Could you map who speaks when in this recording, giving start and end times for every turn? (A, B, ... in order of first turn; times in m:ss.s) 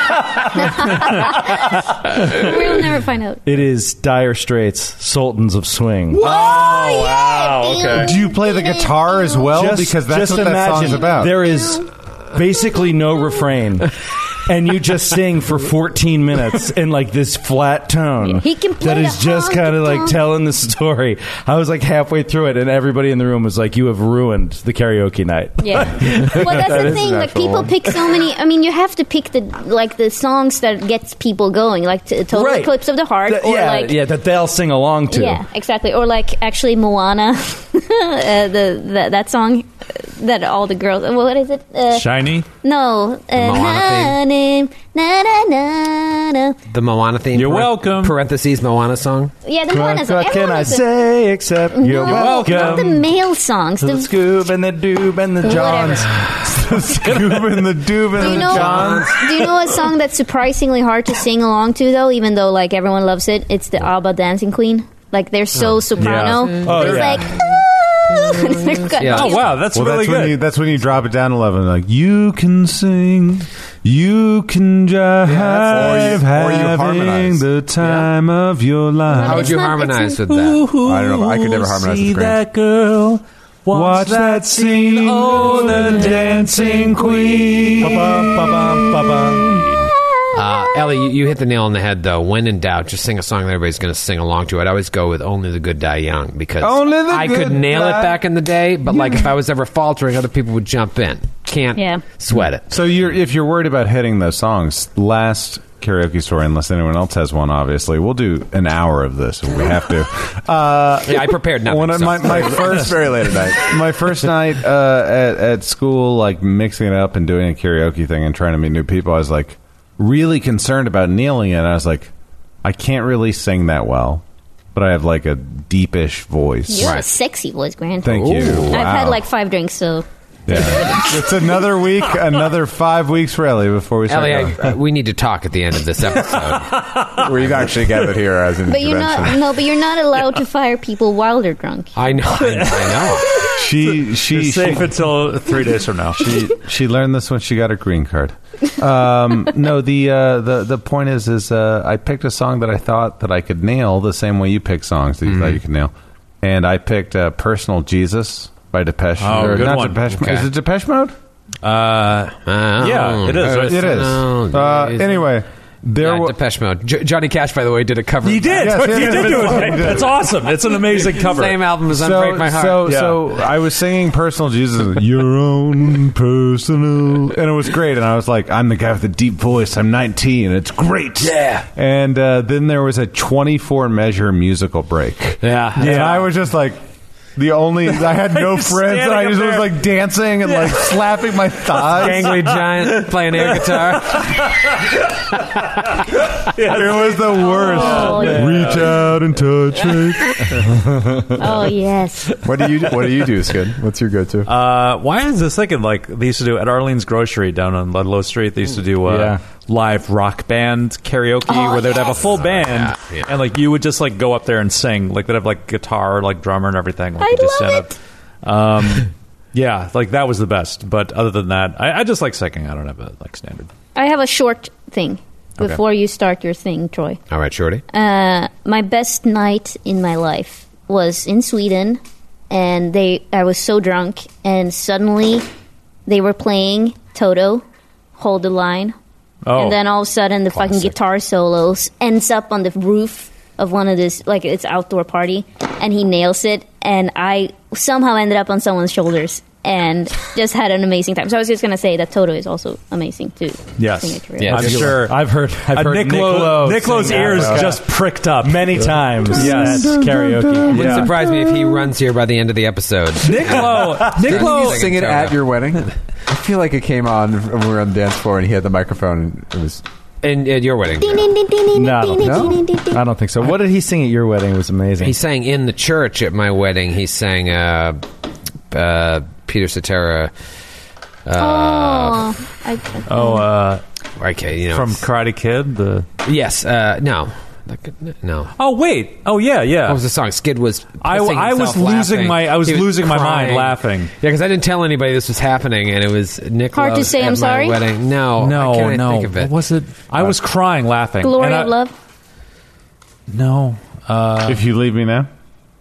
0:00.6-0:01.5 A
0:02.1-0:03.4 A
0:03.4-0:06.3 B
0:06.1-0:08.1 C
0:06.2-0:09.5 A
0:07.9-0:11.3 D
0:09.5-0:13.9 B
0:11.4-0:11.8 A
0:14.5-0:26.9 B
0:18.2-0:20.2 A
0:25.6-0:34.0 A
0:26.3-0:27.9 E
0:32.3-0:35.4 B
0:35.1-0:46.6 A
0:41.9-0:42.5 C
0:43.4-0:44.2 F
0:46.7-0:49.3 F
0:47.3-0:48.2 C
0:49.4-0:50.8 A
0:49.7-0:53.1 B
0:51.7-0:54.1 A
0:52.0-0:52.9 F
0:53.8-0:56.3 B
0:55.4-0:56.1 A
0:56.4-0:59.3 D
0:58.2-0:59.8 F
0:58.2-1:09.5 A
1:05.5-1:06.0 F
1:06.0-1:07.4 C
1:06.6-1:07.4 F
1:09.0-1:09.6 F
1:09.1-1:10.4 C
1:09.7-1:19.6 D
1:15.3-1:17.4 E
1:17.8-1:18.1 F
1:19.1-1:20.2 A
1:19.2-1:20.7 F
1:20.3-1:28.1 C
1:20.8-1:22.4 E
1:23.7-1:29.6 D
1:27.8-1:29.2 B
1:29.5-1:42.7 F
1:36.6-1:38.2 D
1:41.8-1:42.0 A
1:42.7-2:02.1 D
1:51.0-1:52.8 F
1:52.3-1:53.7 E
2:02.6-2:04.2 D
2:04.7-2:07.0 D
2:06.7-2:11.2 A
2:06.8-2:07.1 F
2:08.0-2:09.2 D
2:08.1-2:08.8 F
2:10.5-2:14.7 D
2:14.1-2:17.5 F
2:16.7-2:17.3 C
2:17.1-2:19.5 E
2:18.7-2:21.9 A
2:22.0-2:23.4 F
2:22.4-2:26.4 C
2:23.5-2:25.0 D
2:26.1-2:41.1 D
2:35.2-2:35.6 F
2:39.2-2:40.5 C
2:41.6-2:44.2 C
2:42.4-2:45.3 F
2:43.4-2:46.4 D
2:46.0-2:50.0 F
2:48.2-2:51.6 C
2:48.6-2:50.2 D
2:51.0-2:53.0 F
2:51.9-3:06.8 D
2:52.8-2:53.2 C
3:01.2-3:01.6 F
3:05.4-3:06.2 F
3:05.8-3:06.3 C
3:07.3-3:12.5 D
3:08.0-3:09.8 C
3:10.4-3:14.9 C
3:11.9-3:16.0 F
3:16.4-3:19.0 C
3:16.6-3:20.6 D
3:17.4-3:18.6 A
3:20.6-3:21.4 B
3:21.4-3:22.3 A
3:22.4-3:24.5 E
3:24.4-3:43.7 C
3:29.0-3:29.4 B
3:31.5-3:32.1 A
3:31.9-3:33.3 F
3:37.2-3:37.9 A
3:44.0-3:47.2 A
3:47.3-3:47.8 F
3:47.9-3:55.4 A
3:56.1-3:57.6 A
3:58.2-3:58.9 A
3:59.4-3:59.8 C
3:59.5-4:14.6 A
4:00.5-4:00.9 F
4:13.8-4:20.0 C
4:14.4-4:15.0 F
4:14.5-4:21.1 B
4:19.5-4:20.9 D
4:20.7-4:21.1 C
4:20.7-4:25.5 F
4:23.2-4:24.9 C
4:24.3-4:29.8 E
4:30.2-4:31.2 F
4:31.0-4:33.0 A
4:31.7-4:35.2 B
4:32.2-4:32.6 E
4:35.0-4:38.0 F
4:38.7-4:40.3 F
4:41.2-4:42.3 F
4:41.4-4:43.4 A
4:43.1-4:43.8 C
4:44.2-4:45.0 F
4:44.7-4:46.0 C
4:46.2-4:48.5 F
4:48.6-4:50.0 C
4:49.8-4:59.5 F
4:51.0-4:54.1 C
4:56.7-4:57.8 A
4:58.4-5:01.7 C
5:01.2-5:01.9 A
5:03.3-5:04.6 C
5:04.4-5:05.3 D